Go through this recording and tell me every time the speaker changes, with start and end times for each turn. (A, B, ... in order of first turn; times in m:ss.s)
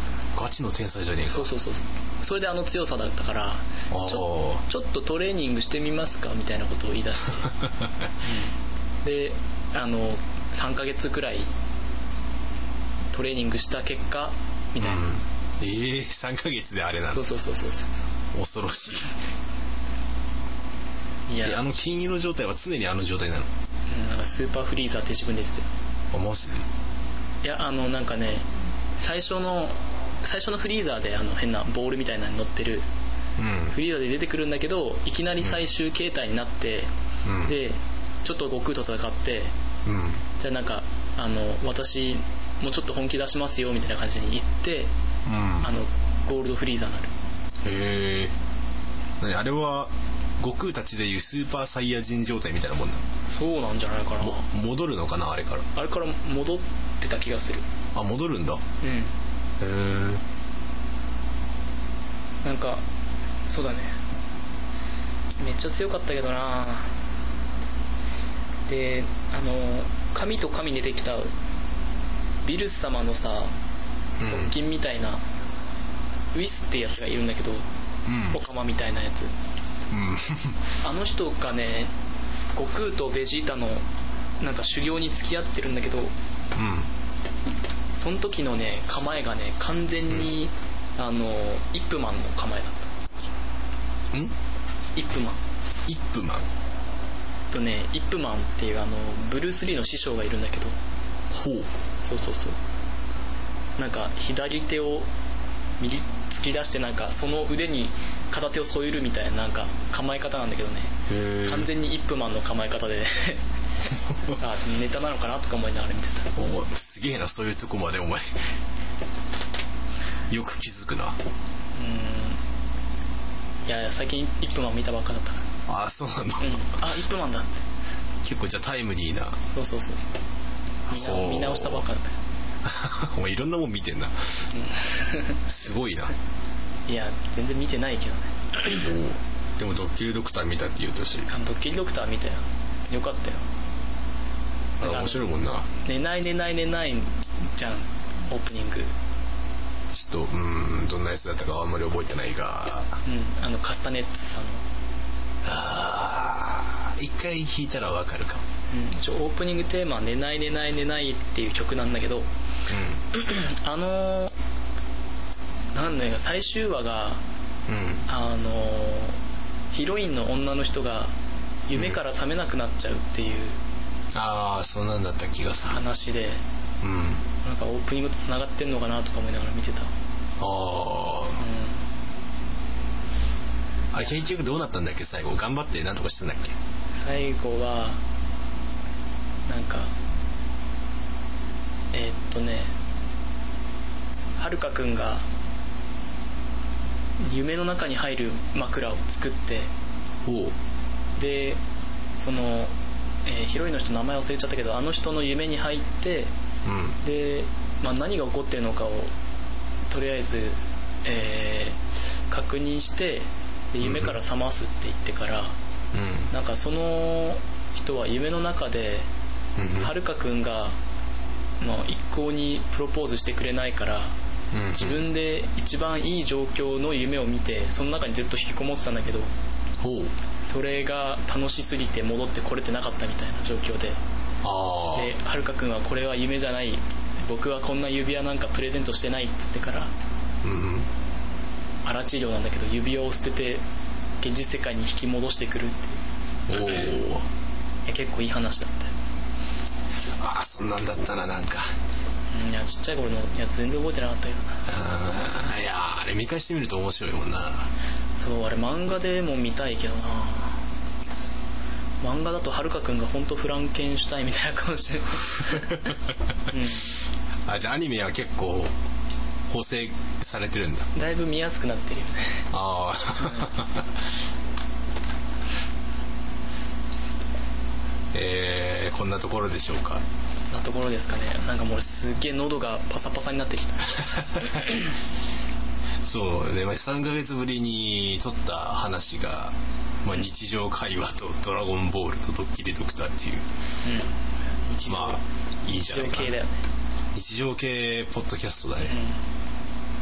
0:00.4-0:01.5 A
0:01.3-0:07.6 B
0:03.9-0:04.6 A
0:08.2-0:11.5 B
0:13.1-0:15.1 B
0:14.8-0:17.3 A
0:17.1-0:18.0 B
0:18.3-0:19.2 A
0:21.3-0:21.8 B
0:21.4-0:23.5 A
0:23.9-0:25.7 B
0:26.1-0:26.7 A
0:27.4-0:28.5 B
0:29.0-0:32.9 B
0:33.4-0:33.8 A
0:33.7-0:36.9 B
0:37.2-0:37.6 A
0:37.4-0:39.5 B
0:39.8-0:40.2 A
0:40.4-0:44.9 B
0:45.3-0:45.7 A
0:45.6-0:47.1 B
0:47.6-0:48.4 A
0:49.2-0:53.0 A
0:53.3-0:54.5 B
0:54.2-0:55.7 A
0:55.8-0:57.7 B
0:57.9-0:58.6 A
0:58.8-0:59.1 B
0:59.6-1:00.2 A
1:02.4-1:02.8 B
1:03.5-1:04.0 B
1:05.4-1:07.0 B
1:08.7-1:11.3 B
1:12.4-1:13.5 B
1:14.2-1:14.5 A
1:14.2-1:15.2 B
1:16.3-1:17.7 B
1:18.1-1:18.4 A
1:18.3-1:19.3 B
1:19.9-1:20.6 A
1:20.8-1:21.9 B
1:22.6-1:23.8 B
1:24.4-1:26.1 B
1:26.5-1:26.9 A
1:28.0-1:32.9 B
1:35.0-1:35.4 B
1:35.9-1:36.5 A
1:37.5-1:40.8 B
1:41.3-1:41.7 A
1:42.0-1:42.6 B
1:43.8-1:45.1 B
1:45.8-1:56.3 B
1:51.1-1:51.7 A
1:56.3-1:58.4 A
2:00.3-2:01.2 A
2:01.8-2:02.4 B
2:03.7-2:05.5 B
2:05.7-2:06.6 A
2:06.4-2:07.6 B
2:08.2-2:09.4 A
2:09.5-2:10.2 B
2:10.9-2:12.2 B
2:10.9-2:11.9 A
2:12.6-2:14.5 A
2:14.5-2:15.4 B
2:15.5-2:16.2 A
2:16.9-2:18.9 B
2:18.7-2:21.3 A
2:21.2-2:23.5 B
2:24.8-2:25.7 A
2:24.8-2:28.9 B
2:29.9-2:33.0 A
2:33.0-2:34.6 B
2:35.4-2:38.4 A
2:38.7-2:42.3 B
2:42.7-2:43.0 A
2:43.1-2:44.4 B
2:45.7-2:47.2 B
2:47.7-2:48.1 A
2:48.1-2:49.2 B
2:49.7-2:51.1 B
2:51.7-2:53.6 B
2:51.7-2:52.0 A
2:54.1-2:55.8 A
2:55.6-2:56.4 B
2:56.8-2:57.2 A
2:57.4-2:59.9 B
3:00.4-3:01.4 A
3:01.4-3:01.8 B
3:03.9-3:06.6 A
3:07.0-3:08.0 B
3:09.5-3:09.9 B
3:11.9-3:12.7 B
3:14.4-3:15.2 B
3:17.2-3:19.7 B
3:20.2-3:20.6 A
3:21.2-3:21.6 B
3:22.2-3:22.7 B
3:23.3-3:26.3 B
3:26.6-3:27.0 A
3:27.0-3:29.1 B
3:29.9-3:35.6 B
3:33.8-3:34.2 A
3:35.9-3:36.3 A
3:36.3-3:39.1 B
3:39.6-3:39.9 A
3:39.8-3:40.8 B
3:41.6-3:44.2 B
3:44.5-3:45.1 A
3:44.7-3:49.3 B
3:49.8-3:50.1 A
3:50.4-3:54.0 B
3:54.4-3:55.2 A
3:54.9-3:59.9 B
4:00.4-4:00.9 A
4:01.8-4:03.6 B
4:04.2-4:06.0 B
4:06.5-4:07.3 A
4:06.5-4:06.9 B
4:07.9-4:08.9 B
4:10.0-4:11.7 A
4:12.3-4:14.7 B
4:14.7-4:17.7 A
4:18.2-4:20.6 B
4:22.0-4:25.9 B
4:26.5-4:27.0 B
4:27.5-4:28.7 A
4:29.5-4:30.9 A
4:30.9-4:32.5 B
4:32.5-4:34.0 A
4:33.2-4:33.6 B
4:38.1-4:40.0 A
4:40.5-4:44.9 B
4:44.4-4:44.7 A
4:46.0-4:53.4 A
4:53.8-4:56.5 B
4:54.9-4:56.4 A
4:57.1-4:59.0 A
4:58.8-4:59.2 B